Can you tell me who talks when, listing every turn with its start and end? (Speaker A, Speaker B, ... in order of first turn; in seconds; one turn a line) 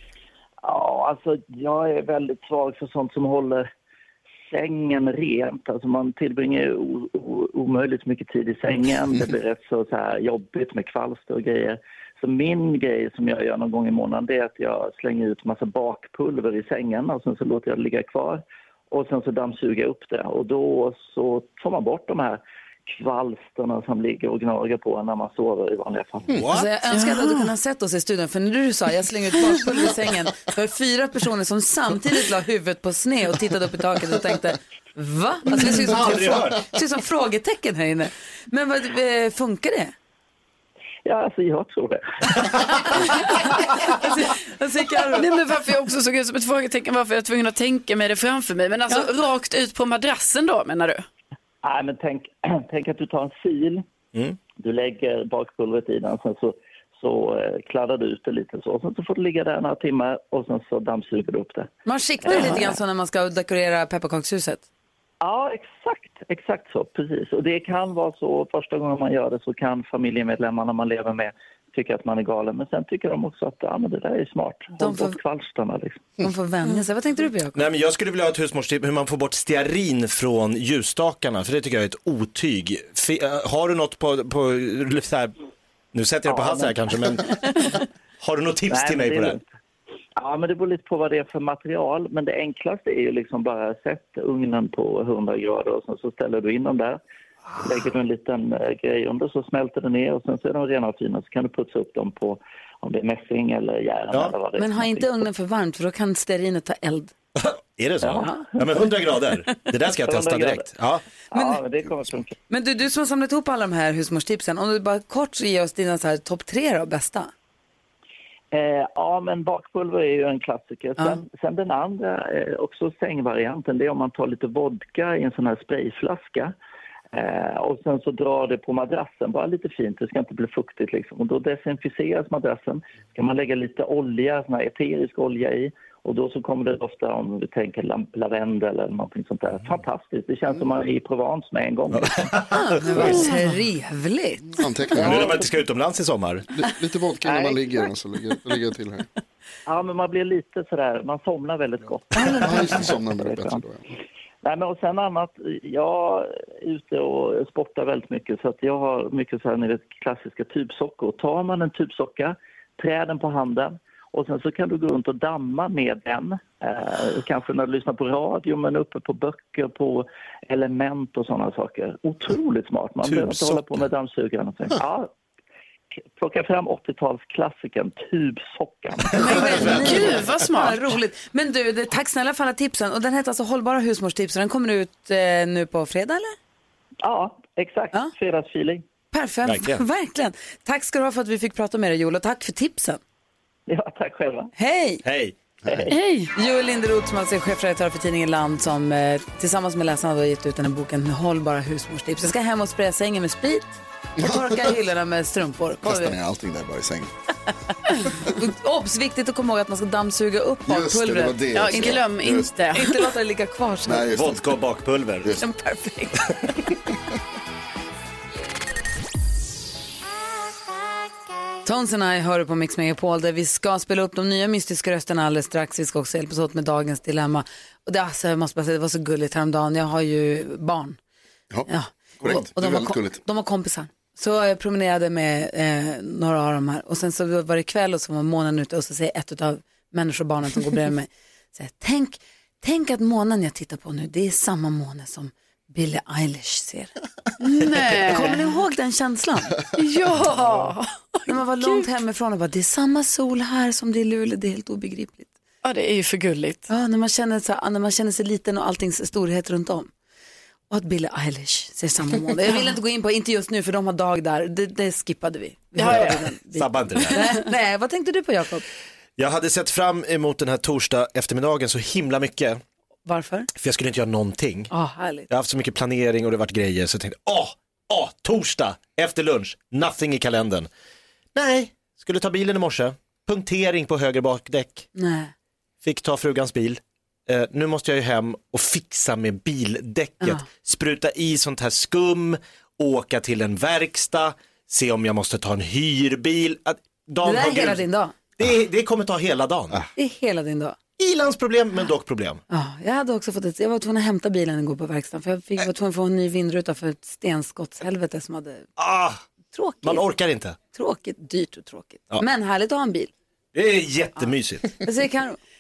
Speaker A: 0.6-3.7
Speaker A: 4.5-26.4
Speaker B: 26.3-26.7
Speaker C: 26.5-39.9
Speaker D: 26.9-27.5
Speaker B: 35.5-36.6
Speaker A: 41.0-42.9
Speaker C: 42.9-45.4
Speaker D: 45.1-51.0
Speaker A: 51.6-53.8
Speaker A: 54.6-61.7
Speaker C: 61.9-64.6
Speaker A: 62.2-62.8
Speaker A: 65.2-76.2
Speaker C: 74.8-75.2
Speaker C: 76.2-77.6
Speaker B: 77.5-85.3
Speaker B: 85.9-89.4
Speaker A: 86.3-87.2
Speaker A: 88.7-89.5
Speaker A: 90.2-97.0
Speaker A: 97.6-105.1
Speaker C: 104.6-107.1
Speaker B: 107.4-111.0
Speaker A: 108.0-108.8
Speaker A: 110.0-110.7
Speaker A: 111.3-112.4
Speaker C: 112.5-117.3
Speaker A: 118.5-126.5
Speaker A: 127.1-142.3
Speaker B: 141.9-143.2
Speaker C: 142.5-144.6
Speaker E: 144.5-145.4
Speaker B: 144.9-146.5
Speaker A: 145.0-145.6
Speaker E: 146.5-149.1
Speaker A: 147.3-147.6
Speaker A: 149.7-153.6
Speaker E: 152.3-153.8
Speaker A: 154.4-175.1
Speaker B: 173.1-173.8
Speaker A: 176.2-179.7
Speaker C: 179.1-186.3
Speaker B: 179.2-180.1
Speaker D: 179.6-180.8
Speaker A: 187.0-188.8
Speaker C: 189.1-193.0
Speaker B: 189.4-189.8
Speaker A: 193.7-194.5
Speaker C: 194.6-195.0
Speaker B: 195.0-195.3
Speaker A: 195.7-195.9
Speaker C: 195.9-206.2
Speaker E: 204.2-204.7
Speaker E: 205.8-207.1
Speaker C: 208.1-212.0
Speaker E: 210.7-212.5
Speaker D: 211.5-213.1
Speaker C: 212.7-214.1
Speaker E: 213.9-214.4
Speaker B: 214.1-215.4
Speaker C: 215.4-216.5
Speaker C: 221.6-231.0
Speaker C: 231.7-246.9
Speaker E: 232.2-233.2
Speaker D: 247.4-248.4
Speaker C: 247.9-249.6
Speaker D: 249.8-251.9
Speaker C: 251.3-255.3
Speaker D: 255.6-256.7
Speaker C: 256.7-259.9
Speaker C: 260.7-268.6
Speaker D: 265.8-266.2
Speaker B: 265.8-267.4
Speaker B: 269.2-272.6
Speaker C: 273.1-273.5
Speaker B: 273.6-274.7
Speaker C: 274.7-275.3
Speaker B: 275.3-280.7
Speaker B: 281.4-284.9
Speaker C: 284.9-285.3
Speaker B: 285.8-297.8
Speaker C: 297.2-298.1
Speaker B: 298.4-299.9
Speaker C: 299.9-300.8
Speaker B: 301.0-302.4
Speaker C: 302.5-308.7
Speaker B: 308.8-309.2
Speaker C: 309.5-310.1
Speaker B: 309.8-310.6
Speaker C: 310.7-313.1
Speaker B: 313.5-314.8
Speaker C: 314.8-315.4